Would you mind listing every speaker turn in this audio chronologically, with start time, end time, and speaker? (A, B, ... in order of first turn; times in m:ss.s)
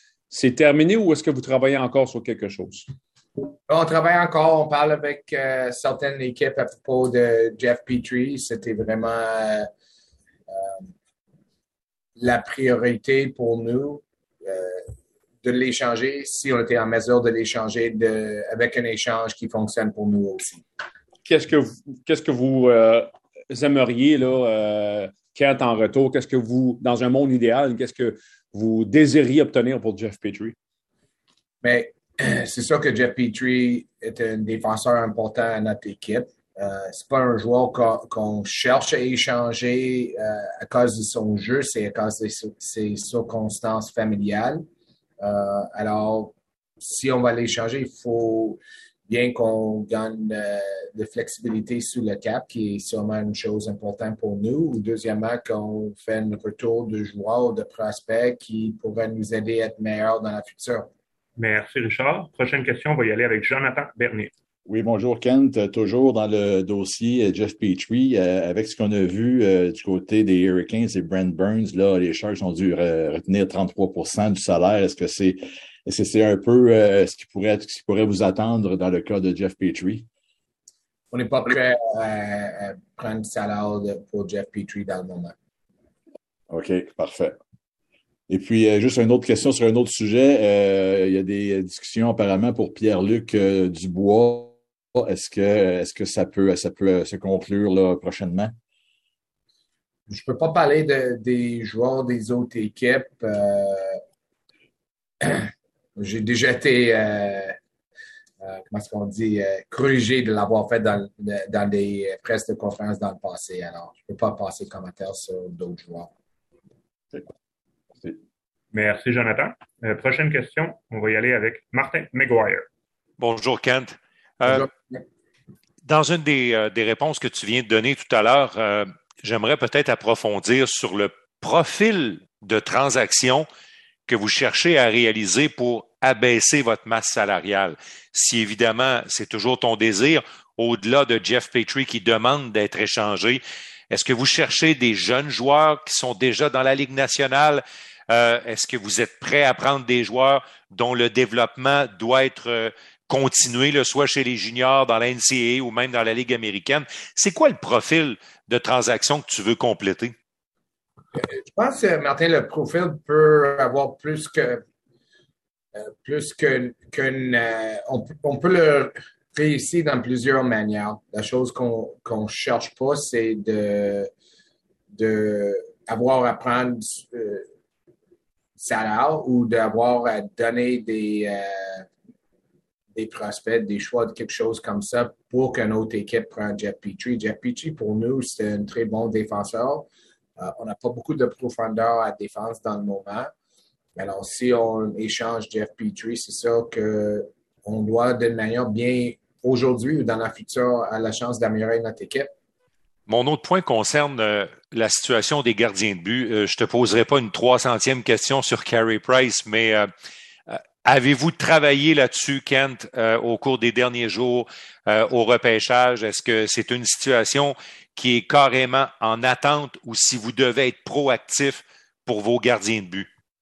0:00.3-0:02.9 A
0:03.7-0:09.7 B
0:10.5-0:10.9 B
0:12.2-0:14.9 B
0:15.4-0:20.6 B
0:21.2-0:30.6 A
0:31.6-0:44.6 B
0:45.2-1:00.9 B
1:01.4-1:04.3 C
1:04.6-1:20.0 D
1:21.1-1:25.3 B
1:26.5-1:27.4 D
1:28.3-1:38.6 D
1:40.1-1:44.0 B
1:45.2-1:47.6 B
1:48.4-1:56.1 B
1:58.7-2:02.6 C
2:03.2-2:04.7 E
2:04.4-2:05.0 B
2:05.8-2:13.5 E
2:14.1-2:40.1 E
2:41.2-2:44.6 B
2:45.7-2:54.1 B
2:54.9-2:57.4 B
2:58.6-3:01.9 B
3:02.9-3:13.3 B
3:14.0-3:22.3 B
3:23.1-3:29.9 E
3:30.5-3:43.1 E